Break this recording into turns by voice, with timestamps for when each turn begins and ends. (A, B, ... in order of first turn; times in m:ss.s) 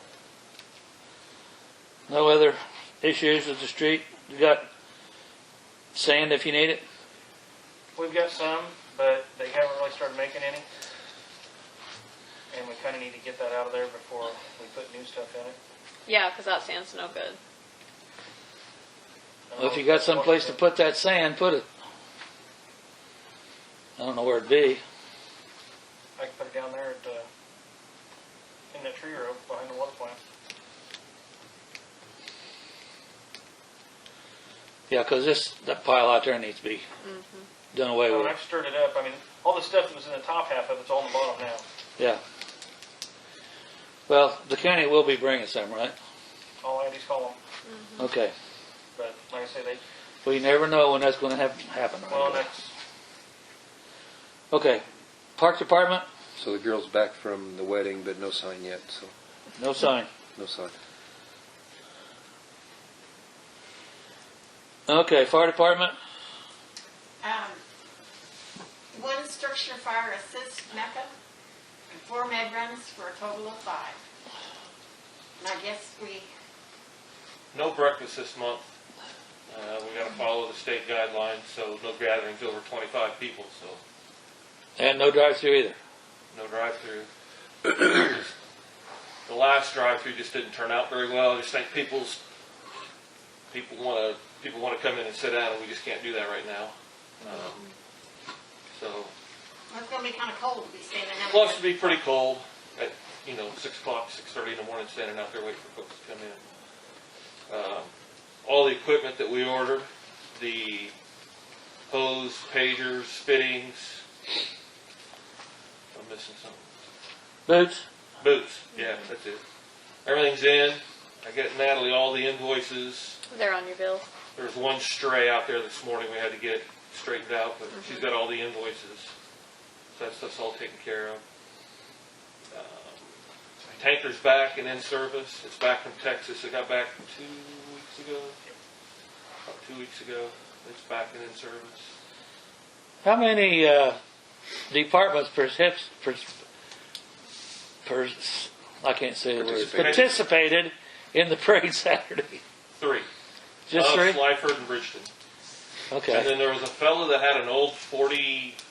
0:02.1-0:04.6 A
0:05.9-0:06.8 A
0:07.9-0:10.6 B
0:12.5-0:15.6 B
0:16.0-0:17.4 C
0:19.5-0:20.6 B
0:19.6-0:21.6 A
0:24.0-0:24.8 A
0:26.2-0:27.3 B
0:28.7-0:30.2 B
0:34.9-0:36.8 A
0:37.0-0:37.5 C
0:37.7-0:38.4 A
0:38.1-0:41.6 B
0:44.1-0:45.9 A
0:46.6-0:47.4 B
0:47.7-0:48.0 C
0:48.0-0:48.3 A
0:49.0-0:49.8 B
0:50.2-0:52.5 A
0:52.1-0:52.7 B
0:54.5-0:54.8 A
0:55.4-0:56.0 A
0:56.4-0:59.1 D
0:59.6-1:00.1 A
1:00.4-1:00.7 D
1:04.9-1:06.0 A
1:07.2-1:07.6 E
1:08.9-1:11.1 E
1:11.9-1:14.0 E
1:15.4-1:16.3 E
1:17.5-1:18.7 F
1:19.5-1:23.8 F
1:24.8-1:25.8 A
1:26.3-1:27.1 F
1:27.7-1:28.3 F
1:29.2-1:32.2 F
1:33.5-1:37.6 F
1:38.7-1:39.1 F
1:39.7-1:41.6 E
1:41.2-1:46.4 F
1:47.5-1:47.9 F
1:48.4-1:50.9 F
1:51.9-1:54.0 F
1:55.9-1:56.7 F
1:57.5-1:57.8 A
1:58.2-1:59.4 F
2:00.0-2:03.2 F
2:03.3-2:04.0 C
2:04.4-2:09.1 F
2:09.9-2:11.2 F
2:12.5-2:13.1 F
2:13.7-2:18.4 F
2:19.5-2:21.9 F
2:23.0-2:24.0 A
2:24.7-2:26.3 A
2:27.8-2:32.4 A
2:29.4-2:30.1 D
2:29.6-2:30.1 F
2:32.8-2:33.1 F
2:33.7-2:34.2 A
2:33.7-2:35.1 F
2:35.9-2:36.4 A
2:36.1-2:38.6 F